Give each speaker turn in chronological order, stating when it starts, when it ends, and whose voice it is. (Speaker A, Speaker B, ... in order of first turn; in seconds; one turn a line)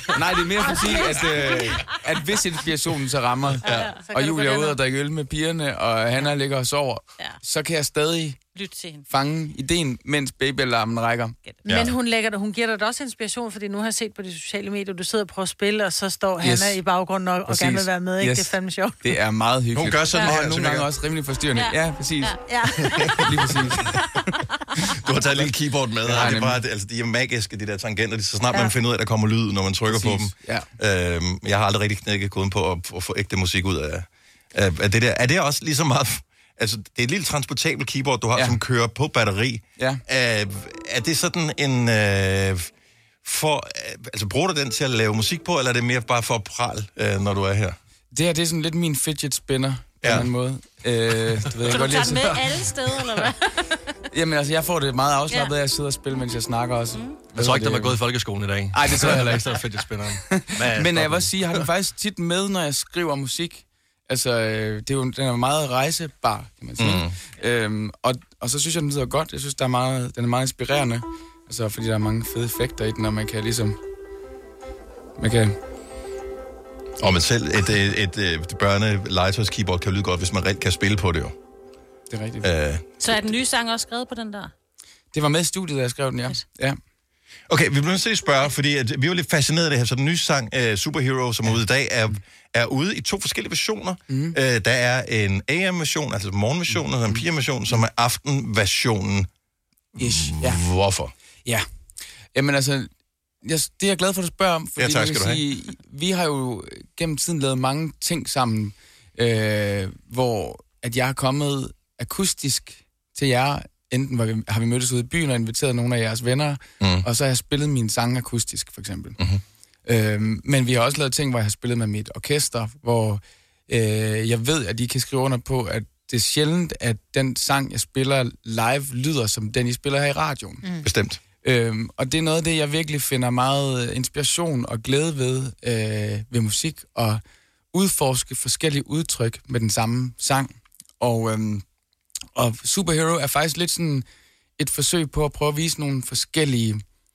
Speaker A: 0.1-8.4
Speaker B: 0.6-1.9
Speaker C: 0.6-1.6
Speaker D: 3.6-3.9
Speaker B: 3.6-4.5
Speaker C: 4.1-4.8
Speaker B: 8.5-9.1
Speaker A: 9.1-11.4
Speaker C: 11.6-19.0
Speaker D: 11.7-11.9
Speaker A: 16.4-16.8
Speaker A: 17.5-22.4
Speaker D: 19.7-20.9
Speaker B: 21.5-24.2
Speaker D: 23.0-23.6
Speaker A: 23.2-23.9
Speaker D: 25.0-42.7
Speaker A: 26.0-26.6
Speaker A: 29.9-30.7
Speaker A: 39.8-40.0
Speaker D: 43.2-47.8
Speaker A: 48.1-52.4
Speaker D: 50.0-50.3
Speaker B: 51.7-53.8
Speaker A: 54.1-58.0
Speaker B: 55.3-55.5
Speaker B: 56.9-57.2
Speaker E: 57.3-61.6
Speaker A: 58.7-59.6
Speaker A: 60.3-73.8
Speaker D: 66.8-67.1
Speaker A: 75.2-75.5
Speaker D: 77.0-81.3
Speaker A: 82.1-82.5
Speaker D: 82.4-82.8
Speaker B: 83.0-84.5
Speaker A: 85.1-86.8
Speaker D: 87.5-99.3
Speaker A: 94.1-94.3
Speaker A: 96.7-97.8
Speaker D: 100.0-101.1
Speaker A: 100.0-100.6
Speaker A: 102.3-102.9
Speaker A: 103.4-119.2
Speaker D: 104.8-105.4
Speaker D: 116.8-117.0
Speaker A: 119.8-130.6
Speaker D: 130.8-131.2
Speaker A: 131.4-137.2
Speaker A: 137.7-141.6
Speaker A: 142.3-144.0
Speaker A: 144.6-146.8